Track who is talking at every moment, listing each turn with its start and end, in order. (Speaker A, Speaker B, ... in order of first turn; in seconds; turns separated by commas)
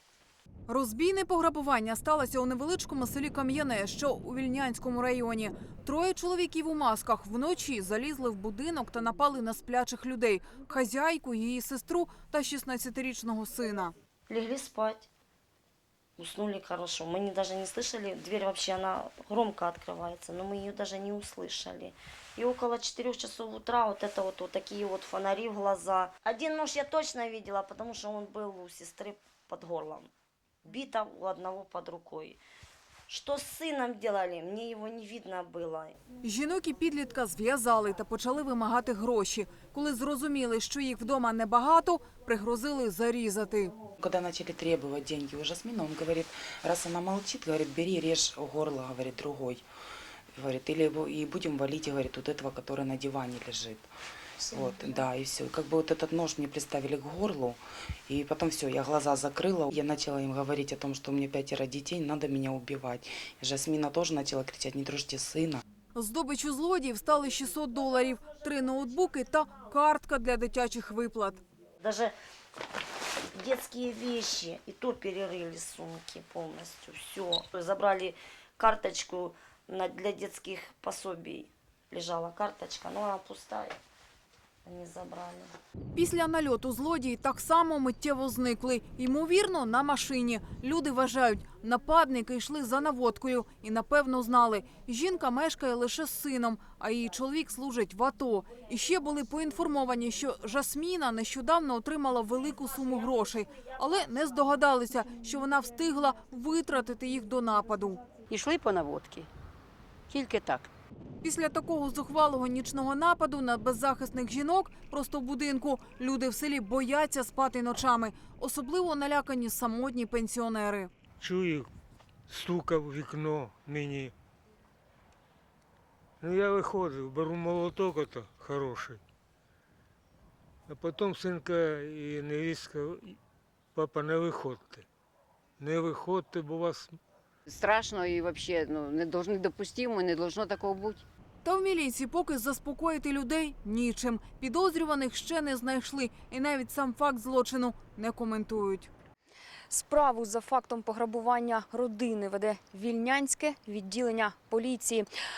Speaker A: 0.7-13.9, Speaker B: 14.3-15.1, Speaker B: 16.2-30.1, Speaker B: 30.6-32.4, Speaker B: 33.1-36.0, Speaker A: 36.2-43.7, Speaker C: 44.0-49.6, Speaker C: 50.3-53.9, Speaker C: 54.5-65.6, Speaker A: 65.9-71.4, Speaker B: 71.8-72.1, Speaker B: 73.3-83.8, Speaker B: 84.6-85.5, Speaker A: 85.9-108.0, Speaker D: 108.3-109.3, Speaker D: 110.1-110.7, Speaker A: 111.2-120.9, Speaker E: 121.2-121.7, Speaker E: 122.3-124.1, Speaker E: 126.2-129.0, Speaker E: 130.7-133.2, Speaker E: 133.7-134.8, Speaker E: 135.6-136.9, Speaker D: 137.5-141.0, Speaker A: 141.4-148.9, Speaker F: 149.7-155.1